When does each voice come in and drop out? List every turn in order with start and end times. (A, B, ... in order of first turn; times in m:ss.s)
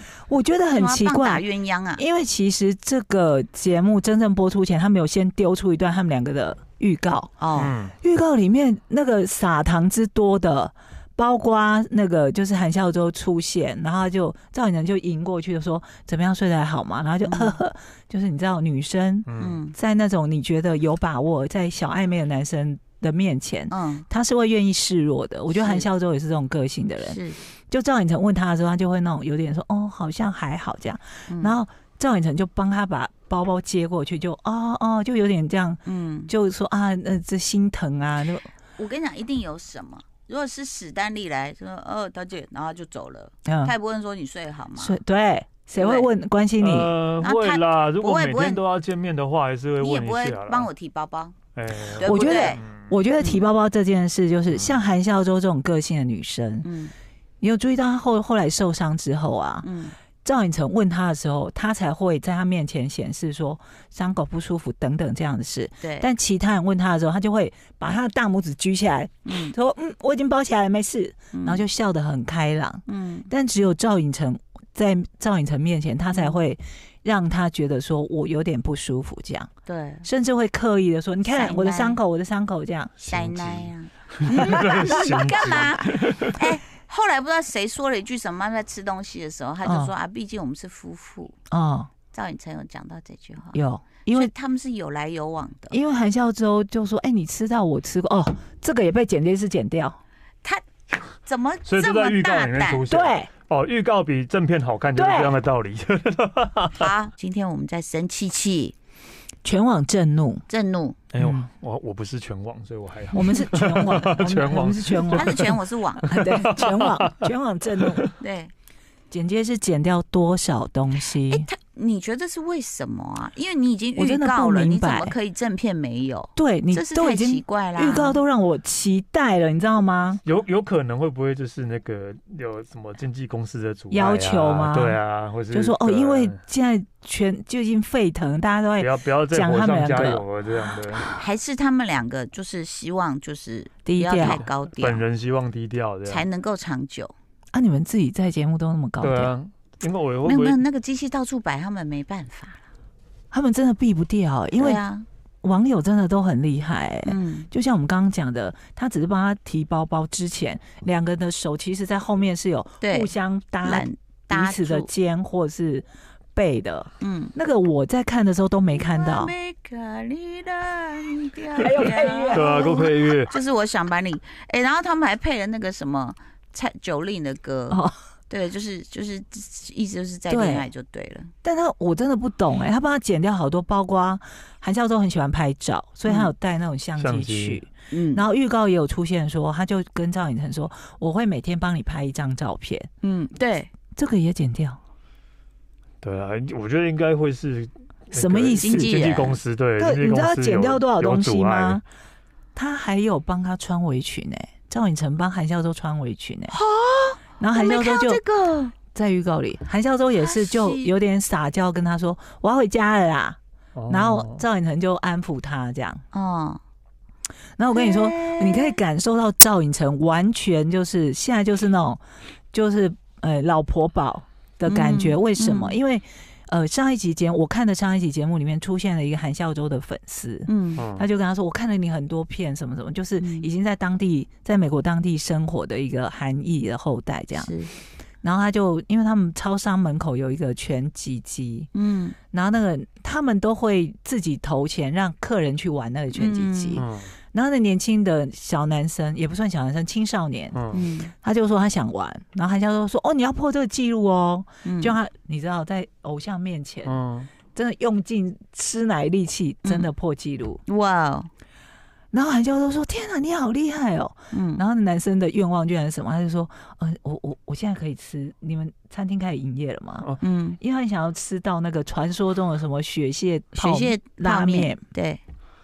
0:00.3-0:01.4 A
0:00.7-0:02.0 B
0:02.0-0:38.5 A
0:07.4-0:07.7 B
0:07.6-0:07.9 C
0:17.2-0:17.6 B
0:19.2-0:19.6 C
0:19.4-0:19.8 B
0:23.7-0:24.0 B
0:25.5-0:25.9 B
0:27.0-0:27.4 B
0:31.3-0:31.6 B
0:35.8-0:36.3 B
0:38.8-0:45.0 B
0:43.4-0:43.7 A
0:44.8-0:46.9 A
0:45.7-0:46.1 B
0:46.6-0:50.7 C
0:47.2-0:48.6 B
0:49.8-0:51.4 B
0:51.5-0:52.9 C
0:52.0-0:52.6 B
0:52.0-0:56.7 A
0:53.2-0:53.4 B
0:54.5-0:54.9 C
0:56.6-0:56.9 B
0:57.4-0:59.7 A
0:59.6-1:00.0 B
1:00.2-1:19.5 A
1:05.8-1:06.1 B
1:09.2-1:09.5 B
1:11.3-1:11.6 B
1:12.8-1:13.3 B
1:16.1-1:16.4 B
1:19.6-1:20.1 B
1:20.0-1:23.0 A
1:21.3-1:22.0 B
1:23.0-1:31.3 B
1:23.1-1:26.4 C
1:24.4-1:25.2 A
1:29.6-1:29.9 A
1:31.5-1:31.9 A
1:32.1-1:35.8 B
1:33.5-1:34.3 A
1:35.7-1:40.0 A
1:41.2-1:42.9 B
1:41.6-1:46.9 C
1:42.9-1:43.3 A
1:45.0-1:45.4 A
1:46.7-1:48.7 B
1:49.4-1:50.4 A
1:50.5-1:51.0 B
1:51.1-1:55.5 C
1:51.2-1:51.5 A
1:53.1-1:55.4 A
1:55.1-1:56.2 B
1:56.1-1:58.1 A
1:56.1-1:57.3 C
1:57.8-1:58.1 C
1:58.2-1:58.5 B
1:59.1-2:01.5 A
2:01.2-2:08.2 B
2:04.0-2:05.2 A
2:06.4-2:10.2 A
2:10.2-2:16.4 C
2:13.9-2:15.0 A
2:15.5-2:20.2 A
2:18.8-2:21.1 C
2:21.1-2:25.0 B
2:23.8-2:24.4 A
2:24.2-2:26.2 C
2:26.0-2:27.1 B
2:27.5-2:29.3 A
2:29.0-2:30.6 C
2:30.2-2:32.7 B
2:33.3-2:34.8 A
2:34.6-2:35.1 B
2:35.4-2:49.3 A
2:37.0-2:37.5 B
2:42.8-2:44.9 B
2:47.0-2:47.3 B
2:48.7-3:01.3 B
2:51.6-2:52.9 A
2:52.3-2:53.3 C
3:00.3-3:00.7 A
3:01.4-3:12.9 A
3:06.0-3:06.3 B
3:07.0-3:07.6 C
3:07.9-3:08.3 B
3:13.0-3:13.7 B
3:14.0-3:14.8 A
3:16.0-3:21.8 C
3:18.1-3:18.9 A
3:18.5-3:19.4 B
3:19.8-3:21.8 A
3:22.5-3:26.6 A
3:26.5-3:28.7 B
3:27.4-3:28.2 A
3:28.9-3:36.0 A
3:30.1-3:30.9 B
3:33.8-3:34.4 C
3:36.1-3:36.6 B
3:37.6-3:42.0 A
3:37.7-3:38.8 B
3:42.5-3:57.5 A
3:44.6-3:45.8 B
3:50.5-3:50.8 B
3:50.8-3:51.1 C
3:53.2-3:53.5 B
3:57.4-3:57.7 B
3:58.2-4:01.7 A
4:01.7-4:02.2 B
4:02.3-4:17.0 A
4:06.1-4:06.8 B
4:06.8-4:07.1 C
4:10.5-4:10.8 C
4:10.7-4:11.1 B
4:14.6-4:15.0 B
4:16.8-4:17.3 C
4:17.5-4:20.6 A
4:19.6-4:19.9 B
4:20.7-4:21.3 B
4:22.1-4:30.1 A
4:24.3-4:24.6 B
4:30.2-4:30.6 B
4:30.6-4:34.8 A
4:33.5-4:35.2 B